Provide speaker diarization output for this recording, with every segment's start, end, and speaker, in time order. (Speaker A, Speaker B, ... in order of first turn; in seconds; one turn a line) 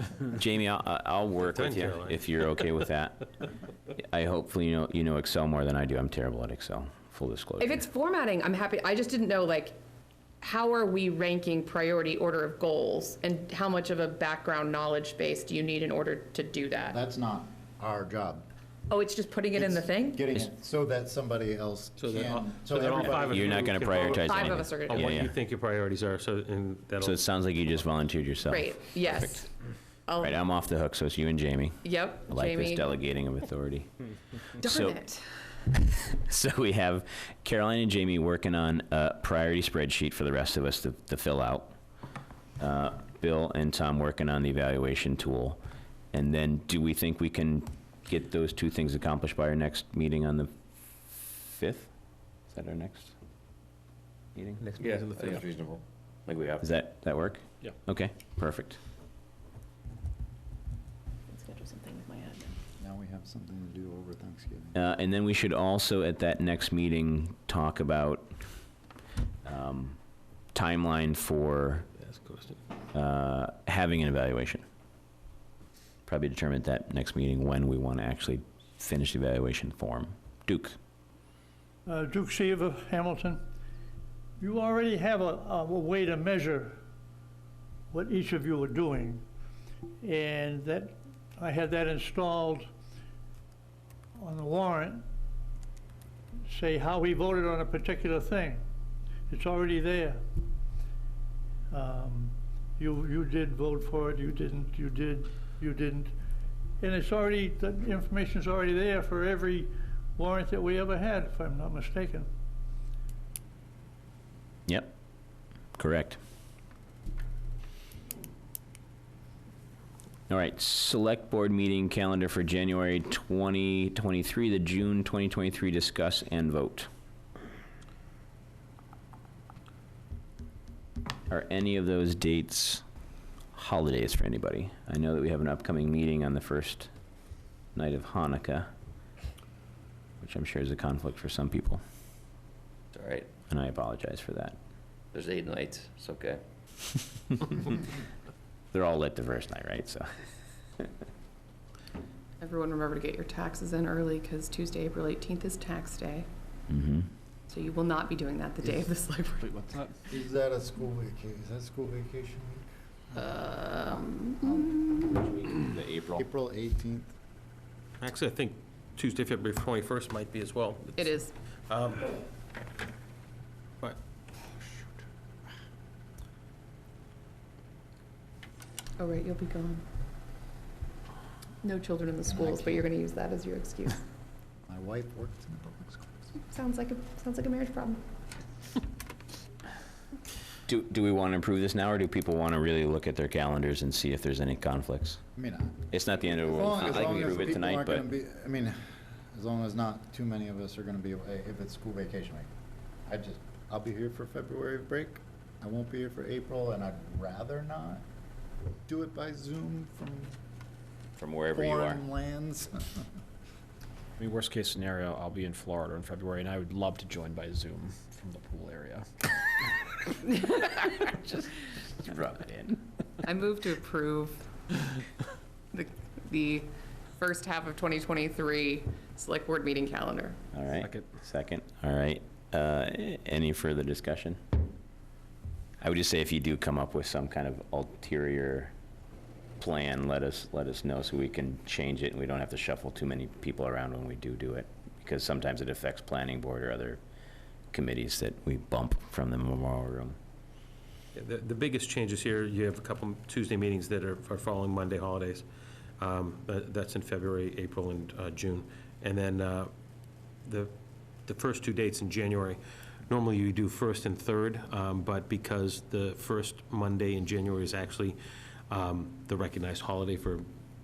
Speaker A: 0.3-3.3
Speaker B: 1.4-2.5
Speaker A: 3.9-7.8
Speaker C: 7.6-9.8
Speaker C: 10.4-17.0
Speaker D: 16.9-18.5
Speaker C: 18.9-20.2
Speaker D: 19.5-23.7
Speaker B: 22.0-27.2
Speaker A: 23.0-25.4
Speaker C: 24.0-25.2
Speaker A: 27.0-29.5
Speaker C: 28.5-29.5
Speaker C: 30.1-30.4
Speaker A: 30.2-34.1
Speaker C: 31.8-32.9
Speaker C: 34.6-35.2
Speaker A: 34.6-35.0
Speaker A: 35.7-41.8
Speaker A: 42.6-45.6
Speaker A: 46.1-51.9
Speaker A: 52.5-53.1
Speaker A: 54.3-54.6
Speaker B: 54.6-55.5
Speaker E: 54.7-56.8
Speaker A: 56.6-58.8
Speaker C: 61.3-62.5
Speaker D: 62.8-64.8
Speaker A: 64.7-68.4
Speaker A: 69.4-70.0
Speaker A: 70.5-71.9
Speaker B: 72.0-72.6
Speaker A: 72.9-74.6
Speaker A: 76.0-80.8
Speaker F: 81.8-83.4
Speaker F: 84.4-86.8
Speaker F: 87.9-89.2
Speaker F: 90.0-92.7
Speaker F: 94.2-95.0
Speaker F: 96.5-98.6
Speaker F: 99.3-100.2
Speaker F: 101.7-106.1
Speaker F: 106.8-112.3
Speaker A: 114.7-114.9
Speaker A: 115.8-116.2
Speaker A: 120.3-126.9
Speaker A: 131.3-132.8
Speaker A: 133.5-136.9
Speaker A: 137.7-138.7
Speaker A: 140.2-141.8
Speaker E: 142.9-143.3
Speaker A: 143.5-144.6
Speaker E: 145.1-146.4
Speaker A: 148.7-150.2
Speaker C: 152.4-156.3
Speaker A: 156.7-157.1
Speaker C: 157.5-159.6
Speaker G: 159.6-159.9
Speaker D: 159.7-165.0
Speaker C: 163.2-165.3
Speaker D: 166.1-167.1
Speaker B: 168.0-172.1
Speaker C: 171.0-171.3
Speaker C: 179.0-179.8
Speaker C: 181.6-184.0
Speaker D: 182.2-182.8
Speaker D: 184.7-186.3
Speaker C: 186.4-188.0
Speaker A: 190.7-195.2
Speaker D: 195.3-198.8
Speaker A: 195.9-198.1
Speaker D: 199.3-202.5
Speaker D: 203.1-208.0
Speaker D: 208.9-210.4
Speaker A: 211.2-212.0
Speaker D: 211.5-213.0
Speaker G: 214.2-220.1
Speaker C: 223.2-224.5
Speaker C: 225.7-226.7
Speaker C: 227.2-230.4
Speaker A: 230.5-234.4
Speaker G: 230.8-231.2
Speaker A: 235.8-238.7
Speaker A: 239.6-247.0
Speaker A: 247.7-250.2
Speaker B: 251.1-255.4
Speaker B: 256.0-259.7
Speaker B: 260.4-260.7
Speaker B: 261.2-268.2
Speaker B: 268.7-270.4